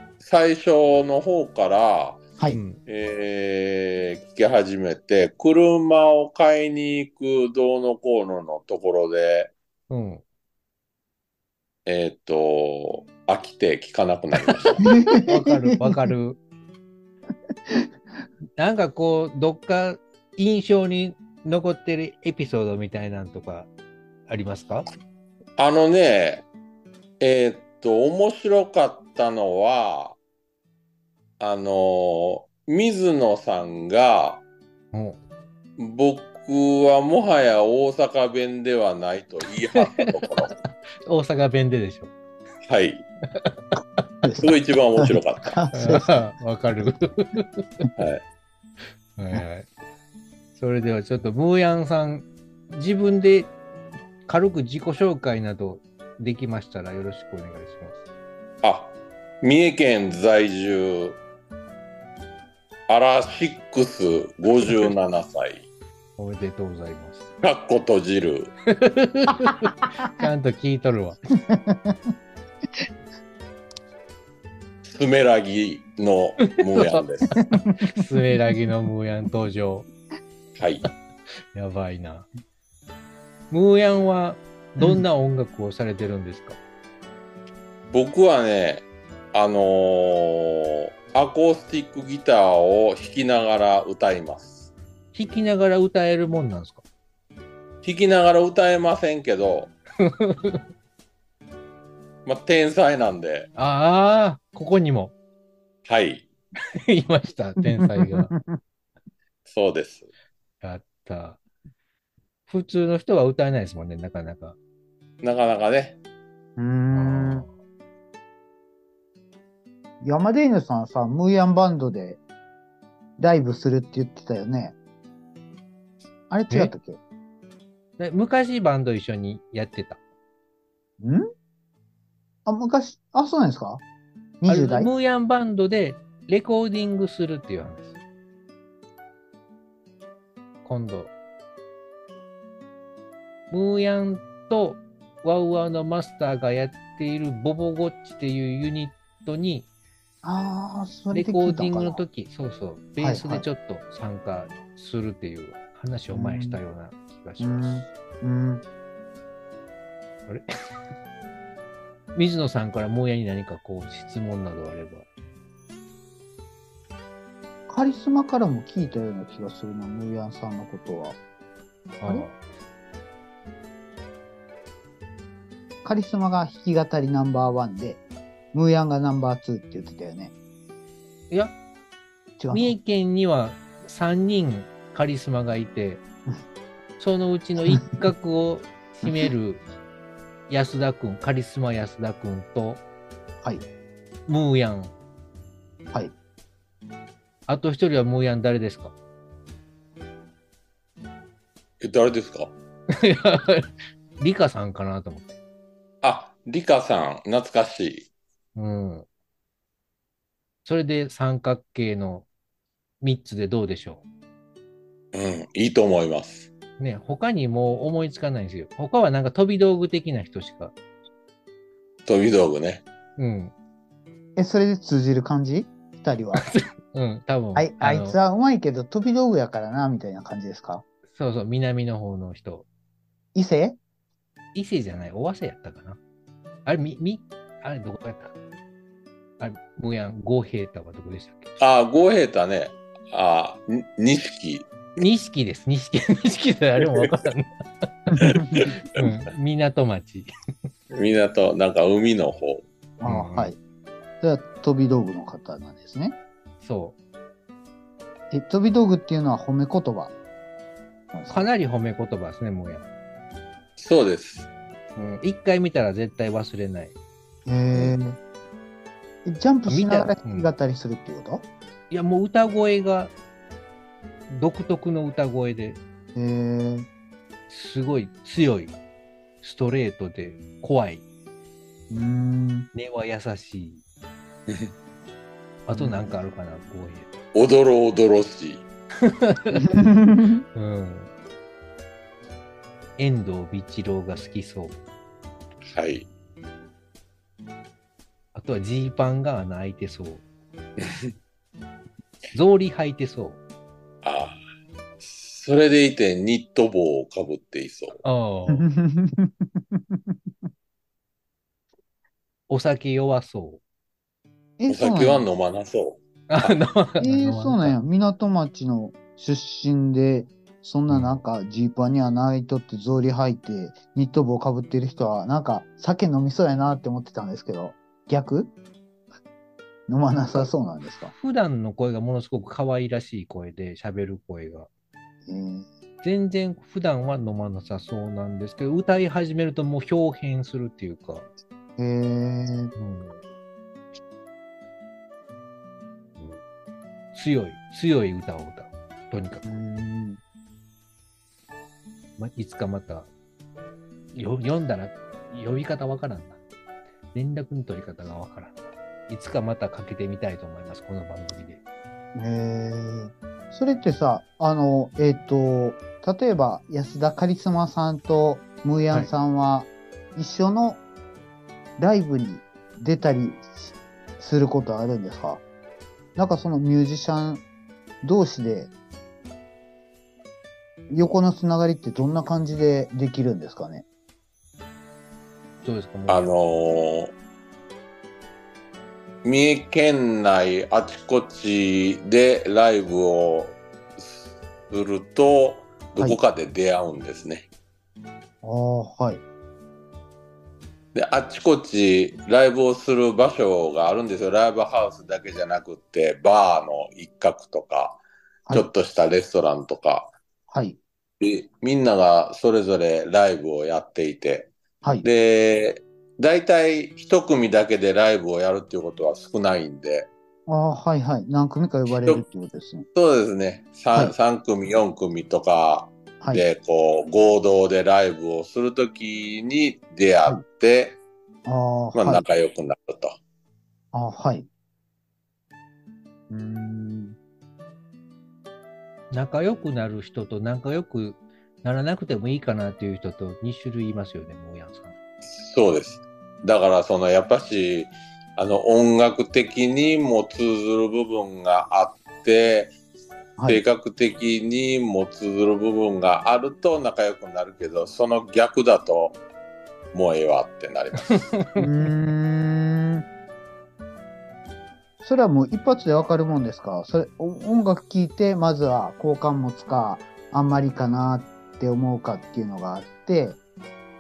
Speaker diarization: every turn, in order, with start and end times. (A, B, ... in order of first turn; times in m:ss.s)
0:00.2-0:02.2 A
0:02.5-0:02.8 B
0:02.9-0:09.5 A
0:09.9-0:10.2 B
0:11.9-0:14.8 A
0:14.5-0:16.4 B
0:14.8-0:15.9 C
0:18.6-0:23.7 B
0:24.3-0:24.9 B
0:25.6-0:26.5 A
0:27.2-0:30.2 A
0:31.4-0:34.4 A
0:34.9-0:35.2 B
0:35.8-0:40.5 A
0:39.8-0:40.5 B
0:41.1-0:42.1 B
0:42.6-0:43.1 A
0:43.3-0:44.0 B
0:44.2-0:46.2 C
0:44.4-0:45.5 A
0:45.7-0:47.9 B
0:48.0-0:48.2 A
0:49.2-0:49.7 B
0:50.6-0:53.5 B
0:54.3-0:58.0 B
0:58.6-1:01.2 A
1:02.9-1:05.7 A
1:04.7-1:04.9 B
1:06.2-1:07.2 B
1:07.4-1:08.5 A
1:08.7-1:11.3 B
1:11.5-1:12.1 C
1:14.8-1:17.4 A
1:16.8-1:19.9 B
1:20.6-1:20.9 A
1:21.5-1:22.3 B
1:23.5-1:26.6 B
1:27.9-1:34.7 A
1:35.1-1:36.8 B
1:37.8-1:39.8 A
1:40.0-1:40.6 B
1:42.3-1:43.5 A
1:43.6-1:45.1 B
1:45.9-1:46.3 A
1:46.9-1:48.3 B
1:47.8-1:48.6 C
1:49.5-1:50.1 A
1:50.6-1:51.4 B
1:52.5-1:54.6 B
1:55.2-1:56.0 A
1:56.6-1:57.5 C
1:56.9-1:57.5 B
2:00.0-2:02.2 C
2:03.2-2:04.8 C
2:06.3-2:07.0 C
2:08.0-2:10.0 B
2:11.0-2:11.2 C
2:12.5-2:13.8 C
2:14.4-2:14.9 C
2:14.5-2:17.9 B
2:20.6-2:21.1 B
2:23.5-2:29.7 B
2:30.2-2:32.0 C
2:31.1-2:37.9 B
2:33.0-2:33.4 C
2:36.1-2:36.6 C
2:37.4-2:38.6 C
2:42.2-2:45.1 B
2:47.7-2:51.2 C
2:52.0-2:52.4 B
2:55.8-2:58.0 C
2:58.5-3:00.3 C
3:02.4-3:02.8 C
3:02.5-3:06.0 B
3:07.0-3:09.6 B
3:10.5-3:12.8 B
3:14.3-3:14.9 B
3:17.5-3:18.9 B
3:21.8-3:22.5 A
3:22.9-3:25.3 B
3:26.0-3:28.1 A
3:28.6-3:29.1 B
3:30.6-3:32.3 B
3:33.0-3:34.0 B
3:35.1-3:36.5 A
3:36.8-3:40.7 B
3:42.1-3:42.8 A
3:43.2-3:43.5 B
3:44.4-3:46.5 C
3:46.4-3:48.2 B
3:47.6-3:50.8 C
3:51.1-3:52.7 B
3:53.4-3:53.8 C
3:54.5-3:56.0 B
3:56.7-3:58.4 B
3:59.4-4:01.5 B
4:01.6-4:04.7 A
4:05.0-4:07.9 B
4:06.8-4:07.1 A
4:08.1-4:08.7 C
4:08.2-4:08.7 A
4:08.8-4:10.3 B
4:10.9-4:12.6 A
4:13.0-4:13.6 C
4:13.0-4:13.5 B
4:14.2-4:16.2 C
4:16.6-4:17.0 B
4:18.3-4:20.1 C
4:21.1-4:21.4 C
4:21.3-4:22.8 B
4:23.8-4:24.5 A
4:25.0-4:27.0 B
4:27.5-4:28.2 C
4:29.2-4:31.5 C
4:29.7-4:30.5 B
4:31.9-4:33.1 B
4:34.3-4:35.8 B
4:36.2-4:36.9 C
4:37.5-4:38.8 B
4:39.4-4:41.0 B
4:41.9-4:42.7 C
4:42.7-4:43.8 B
4:45.7-4:47.2 B
4:45.7-4:46.2 C
4:47.3-4:48.7 A
4:49.0-4:49.8 B
4:49.6-4:50.4 C
4:50.6-4:51.1 B
4:53.0-4:54.8 B
4:55.6-4:56.1 A
4:58.3-5:00.2 B
5:00.8-5:01.1 A
5:02.3-5:03.4 B
5:04.0-5:04.4 A
5:05.0-5:08.0 A
5:08.0-5:08.7 B
5:08.5-5:10.2 C
5:12.5-5:13.6 B
5:14.6-5:15.3 C
5:14.7-5:16.6 A
5:16.3-5:17.8 B
5:17.0-5:28.5 C
5:20.9-5:21.2 B
5:29.9-5:31.1 C
5:31.1-5:34.7 B
5:35.3-5:35.7 C
5:36.0-5:41.3 B
5:41.8-5:42.7 C
5:42.8-5:43.2 B
5:47.1-5:49.5 B
5:49.4-5:50.2 C
5:52.2-5:53.1 B
5:54.1-5:56.4 B
5:57.1-6:01.6 B
6:02.2-6:10.8 C
6:11.8-6:15.4 C
6:16.2-6:17.4 C
6:18.0-6:18.7 C
6:20.9-6:23.9 C
6:25.6-6:26.3 B
6:26.1-6:27.1 A
6:29.2-6:37.5 A
6:38.4-6:39.2 C
6:40.9-6:48.0 A
6:48.5-6:50.1 A
6:50.5-6:50.8 C
6:51.2-6:54.5 A
6:55.0-7:00.1 A
7:00.5-7:02.9 C
7:01.9-7:02.2 A
7:03.0-7:11.0 A
7:11.4-7:12.2 C
7:11.9-7:13.2 A
7:13.9-7:14.5 C
7:16.3-7:17.2 C
7:19.1-7:24.9 B
7:25.3-7:32.7 A
7:33.4-7:33.6 C
7:33.5-7:39.2 A
7:39.9-7:41.4 A
7:41.1-7:41.9 B
7:41.6-7:43.0 C
7:45.0-7:53.4 C